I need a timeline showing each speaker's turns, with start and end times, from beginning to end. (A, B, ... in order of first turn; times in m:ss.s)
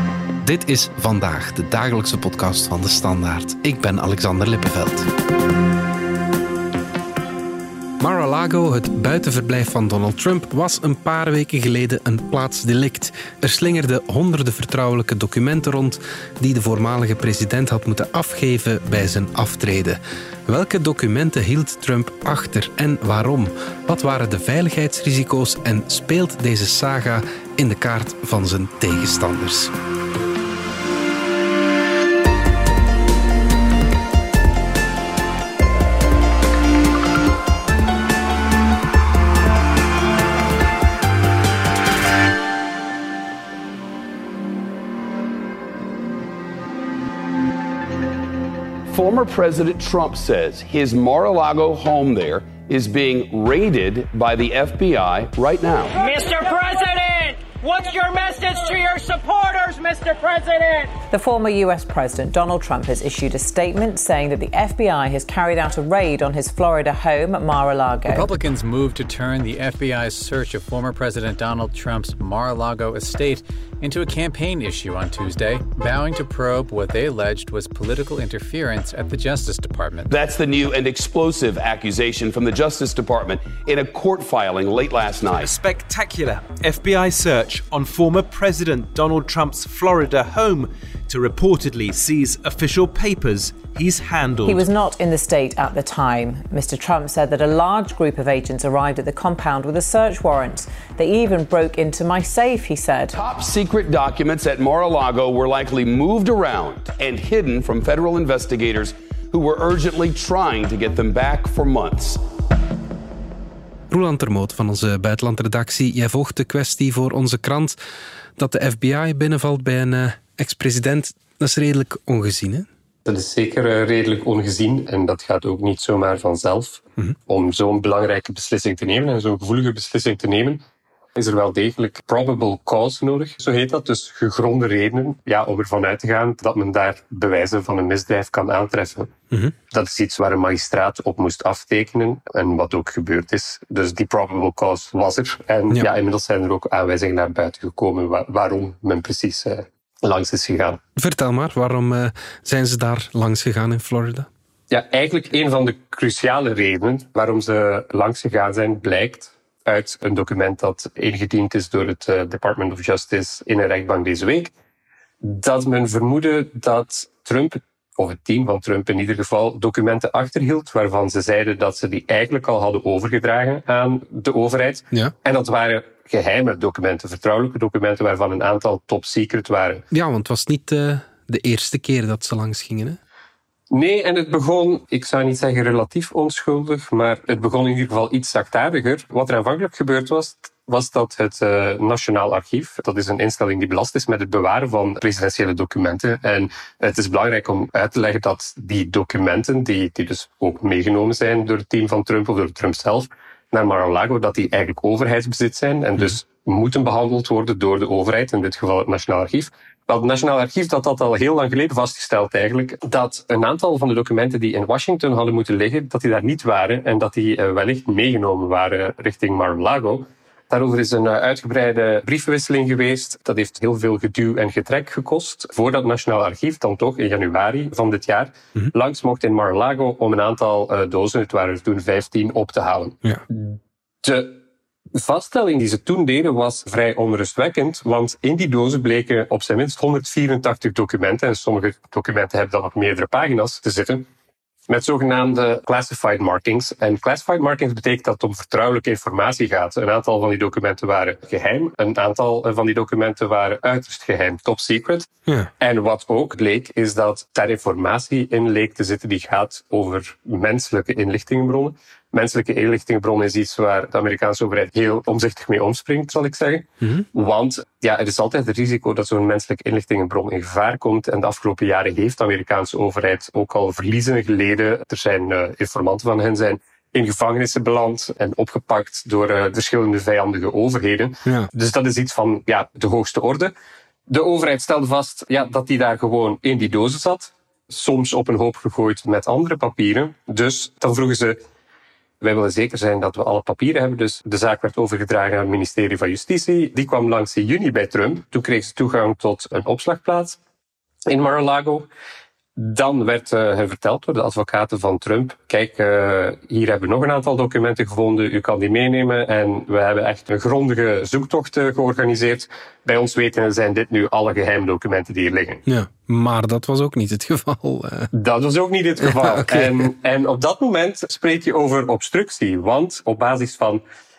0:00.4-0:05.1 A
0:08.0-0:29.7 A
0:48.9-0:56.0 B
0:56.0-1:01.0 C
1:01.1-1:08.3 D
1:08.1-1:20.1 E
1:20.1-1:25.5 B
1:25.4-1:34.6 F
1:34.4-1:43.2 D
1:43.2-1:52.2 B
1:53.9-1:57.8 A
1:58.4-2:02.7 A
2:03.0-2:10.6 G
2:11.2-2:19.1 G
2:19.7-2:30.8 G
2:31.0-2:34.3 A
2:34.7-2:44.5 G
2:45.2-2:59.8 G
2:59.9-3:03.0 A
3:03.7-3:54.4 G
3:55.0-4:04.1 G
4:04.7-4:43.5 G
4:44.1-4:51.4 G
4:52.2-5:00.4 G
5:01.1-5:01.9 G
5:02.6-5:15.6 G
5:15.7-5:18.1 A
5:18.1-5:23.8 G
5:19.1-5:19.9 A